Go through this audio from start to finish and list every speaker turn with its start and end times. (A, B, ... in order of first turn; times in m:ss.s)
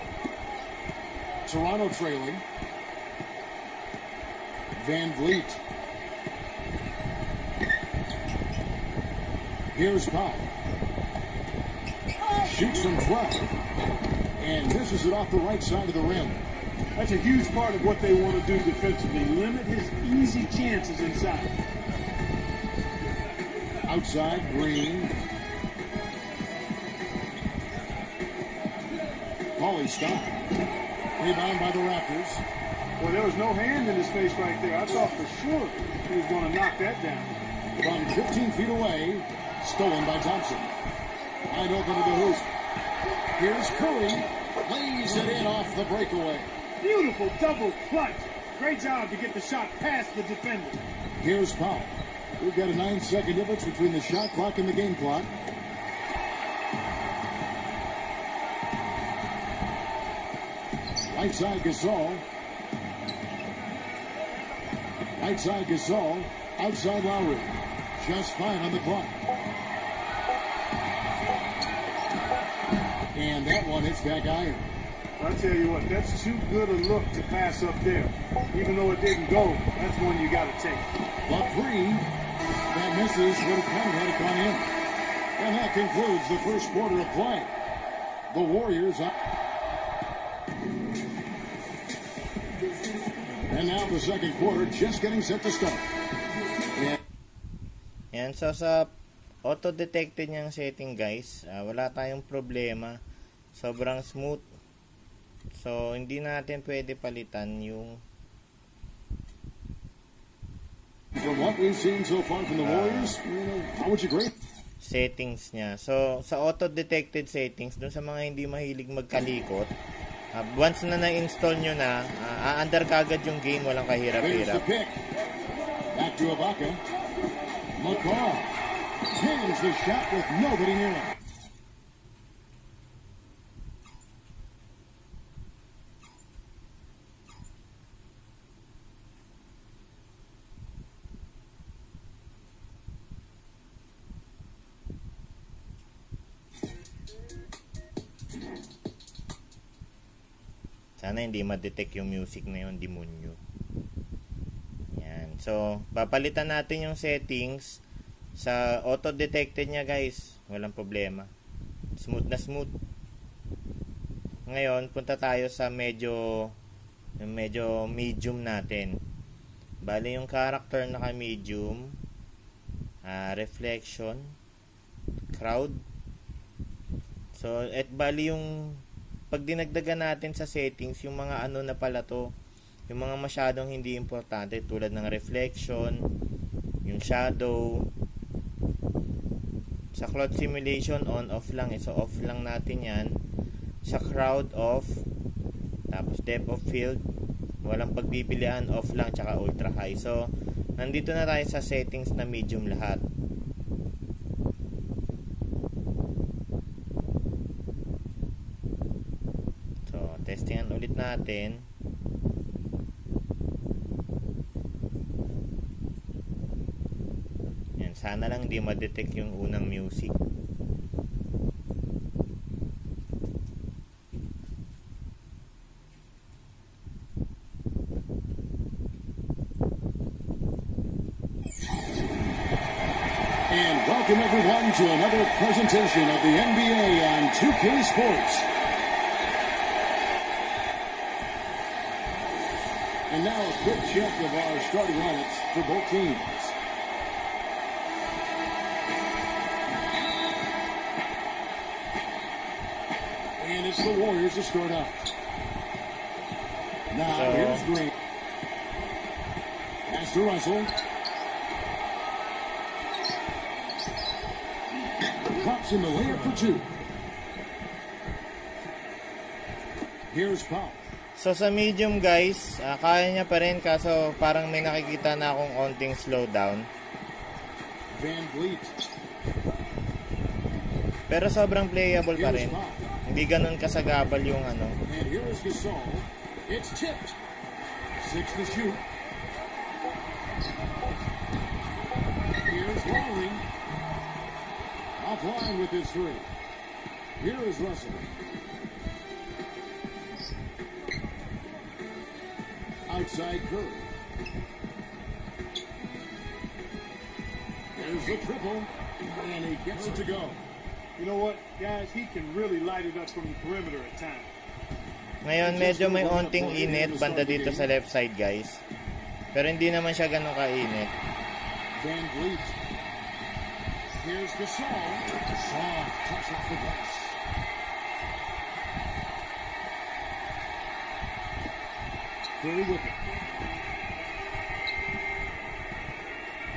0:01.4-0:02.4 A
0:04.7-0:05.6 A
0:09.7-0:10.5 A
0:12.3-0:13.5 A
0:14.4-0:16.4 A
0:17.0-0:21.5 B
0:23.9-0:25.1 A
0:29.6-0:30.4 A
0:31.2-0:32.4 A
0:33.0-0:37.3 B
0:37.8-0:40.7 A
0:41.5-0:42.5 A
0:43.4-0:46.5 A
0:46.8-0:50.8 B
0:51.2-0:55.3 A
1:01.1-1:02.2 A
1:05.2-1:09.2 A
1:13.1-1:14.6 A
1:15.2-1:20.9 B
1:21.2-1:22.1 A
1:22.7-1:24.7 A
1:25.4-1:27.5 A
1:28.3-1:29.2 A
1:33.4-1:35.9 A
1:36.7-1:37.0 A
1:38.1-1:38.9 C
1:39.4-1:43.0 C
1:43.5-1:44.4 C
1:45.5-1:48.0 C
1:51.2-1:54.4 A
1:52.6-1:53.2 C
1:54.8-1:59.7 C
2:00.3-2:04.6 C
2:04.2-2:05.0 A
2:05.9-2:06.8 A
2:07.8-2:08.5 A
2:09.0-2:11.2 A
2:31.0-2:33.4 C
2:34.9-2:37.8 C
2:38.4-2:41.3 C
2:42.0-2:42.7 C
2:44.5-2:46.5 C
2:47.2-2:49.0 C
2:49.8-2:52.0 C
2:53.0-2:54.3 C
2:55.3-2:55.8 C
2:57.3-3:02.3 C
3:02.9-3:06.0 C
3:06.8-3:07.9 C
3:10.0-3:13.2 C
3:13.8-3:15.0 C
3:15.9-3:17.0 C
3:17.6-3:23.0 C
3:29.8-3:31.7 C
3:37.8-3:40.2 C
3:53.5-3:58.5 A
4:03.1-4:06.6 A
4:13.4-4:15.0 A
4:16.9-4:17.9 A
4:17.1-4:17.7 C
4:19.9-4:20.8 A
4:25.3-4:26.7 A
4:30.1-4:30.8 A
4:31.2-4:36.7 C
4:37.9-4:38.8 A
4:41.1-4:44.8 C
4:42.1-4:42.8 A
4:44.9-4:47.2 A
4:48.0-4:48.8 A
4:52.4-4:53.4 A
4:55.0-4:56.3 A
4:57.2-4:58.0 A
5:02.9-5:03.8 A
5:07.7-5:10.4 A
5:11.0-5:14.3 B
5:15.2-5:18.6 C
5:15.4-5:17.7 A
5:19.3-5:20.9 C
5:21.8-5:22.6 A
5:24.0-5:27.2 A
5:32.4-5:33.0 A